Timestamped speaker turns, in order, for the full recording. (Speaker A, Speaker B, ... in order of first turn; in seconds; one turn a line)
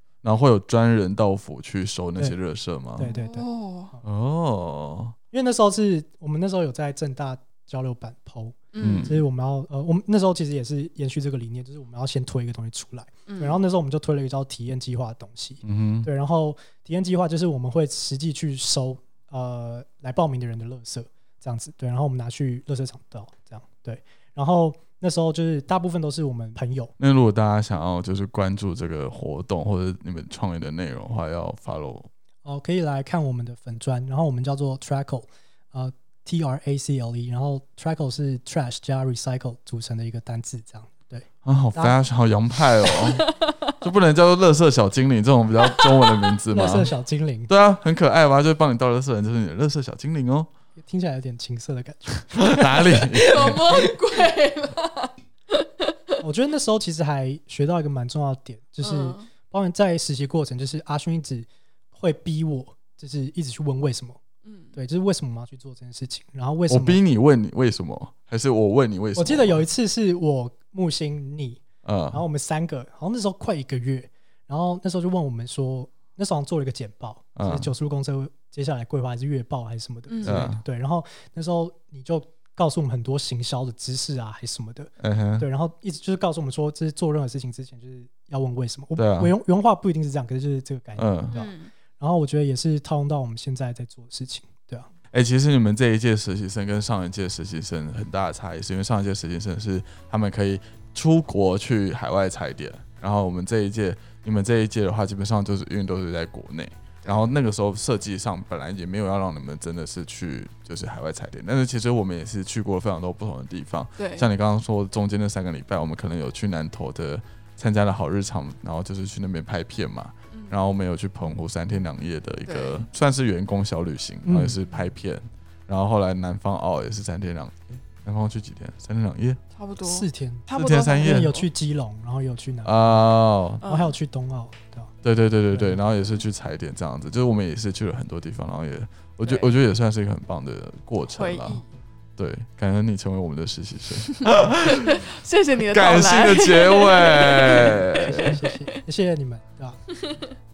Speaker A: 0.2-3.1
Speaker B: 3.0-4.0
Speaker C: 3.0-3.9
Speaker A: 4.0-5.1
Speaker B: 5.3-26.9
Speaker C: 8.7-9.2
Speaker A: 8.8-9.1
Speaker C: 13.3-13.6
Speaker A: 15.6-16.1
Speaker A: 27.0-32.1
Speaker B: 32.4-42.0
Speaker A: 41.4-43.2
Speaker A: 43.8-46.9
Speaker B: 46.5-47.5
Speaker A: 47.5-50.5
Speaker B: 50.8-52.7
Speaker A: 52.3-53.6
Speaker C: 53.0-56.1
Speaker B: 53.5-53.9
Speaker B: 56.2-64.2
Speaker C: 58.8-59.3
Speaker C: 64.4-64.7
Speaker B: 64.7-67.0
Speaker A: 66.7-69.6
Speaker B: 69.2-94.9
Speaker A: 71.8-72.2
Speaker A: 77.3-77.7
Speaker C: 80.1-80.4
Speaker A: 80.2-80.6
Speaker A: 85.0-85.5
Speaker A: 89.0-89.3
Speaker A: 91.0-91.4
Speaker C: 91.3-91.7
Speaker A: 95.1-129.4
Speaker C: 114.0-114.2
Speaker C: 120.3-120.5
Speaker C: 122.5-122.8
Speaker B: 124.2-124.6
Speaker C: 129.5-131.5
Speaker B: 129.8-133.0
Speaker A: 130.5-131.3
Speaker A: 132.6-133.6
Speaker C: 133.6-133.9
Speaker B: 133.6-134.9
Speaker A: 135.0-141.6
Speaker B: 135.5-135.8
Speaker C: 141.1-141.7
Speaker A: 142.2-145.0
Speaker C: 144.3-148.8
Speaker A: 145.6-148.3
Speaker B: 148.2-149.8
Speaker C: 150.0-150.3